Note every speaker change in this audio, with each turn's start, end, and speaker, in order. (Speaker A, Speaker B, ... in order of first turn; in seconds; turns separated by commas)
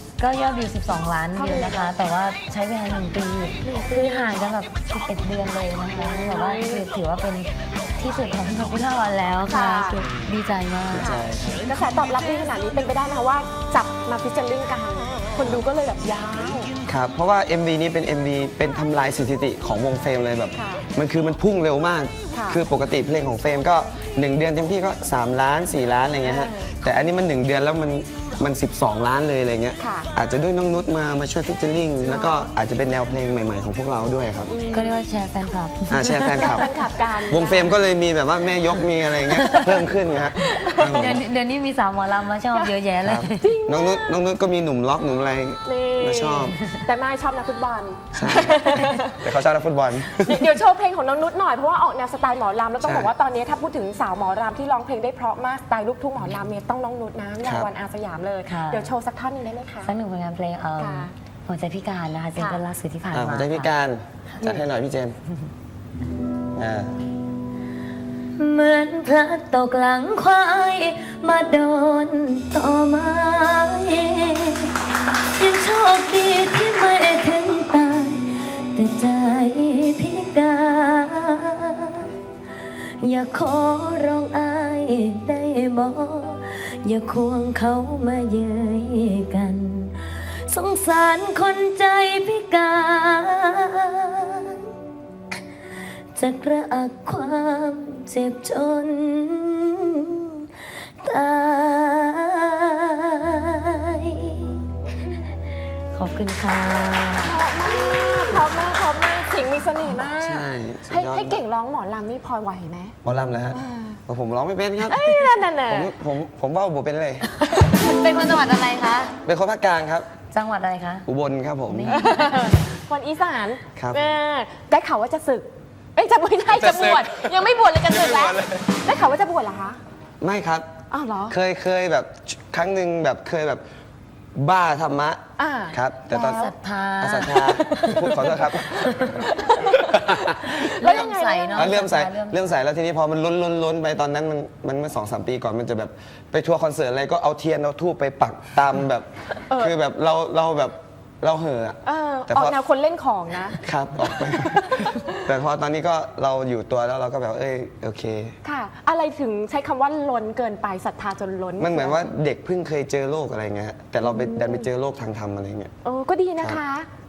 Speaker A: 0.2-11.1, Speaker B: 1.3-1.9, Speaker B: 3.6-4.2, Speaker B: 5.9-6.8, Speaker B: 9.5-10.0, Speaker C: 10.9-11.7, Speaker B: 10.9-16.7, Speaker C: 16.9-34.5, Speaker B: 20.5-20.8, Speaker B: 22.3-22.6, Speaker B: 26.2-26.7, Speaker B: 29.8-30.1, Speaker B: 32.0-32.4, Speaker B: 34.5-35.0, Speaker A: 34.7-36.7, Speaker C: 35.9-36.7, Speaker B: 36.4-37.7, Speaker C: 37.3-41.2, Speaker A: 39.3-39.7, Speaker B: 40.4-41.2, Speaker A: 40.9-43.5, Speaker C: 43.0-46.5, Speaker B: 43.4-44.2, Speaker B: 45.6-49.2, Speaker C: 48.1-50.4, Speaker B: 50.2-59.9, Speaker C: 52.8-53.1, Speaker C: 57.4-57.7, Speaker A: 58.5-58.9, Speaker A: 59.8-63.7, Speaker B: 60.8-61.1, Speaker B: 62.4-62.6, Speaker C: 63.1-65.2, Speaker C: 66.5-66.9, Speaker A: 68.3-74.7, Speaker A: 75.3-82.1, Speaker A: 83.0-89.9, Speaker A: 90.5-94.6, Speaker A: 96.1-99.8, Speaker A: 101.0-104.6, Speaker A: 105.9-107.3, Speaker B: 107.2-113.0, Speaker C: 110.2-111.4, Speaker C: 113.0-115.1, Speaker B: 113.5-114.0, Speaker B: 114.9-115.9, Speaker C: 115.7-117.3, Speaker A: 117.5-119.1, Speaker C: 119.2-120.1, Speaker A: 120.3-121.0, Speaker C: 121.1-122.0, Speaker A: 121.7-122.5, Speaker B: 121.9-129.8, Speaker C: 123.8-124.0, Speaker C: 126.5-128.8, Speaker C: 130.2-130.7, Speaker B: 130.9-131.3, Speaker C: 131.3-133.6, Speaker C: 134.3-136.5, Speaker B: 135.4-136.5, Speaker A: 136.2-137.9, Speaker C: 137.0-139.1, Speaker B: 137.4-138.3, Speaker A: 138.7-139.2, Speaker B: 139.3-141.8, Speaker C: 139.8-152.6, Speaker A: 140.5-142.4, Speaker B: 149.5-149.7, Speaker B: 151.8-153.6, Speaker C: 153.6-158.3, Speaker B: 154.4-155.1, Speaker B: 158.4-162.1, Speaker C: 161.6-165.7, Speaker B: 164.0-164.7, Speaker B: 165.8-166.9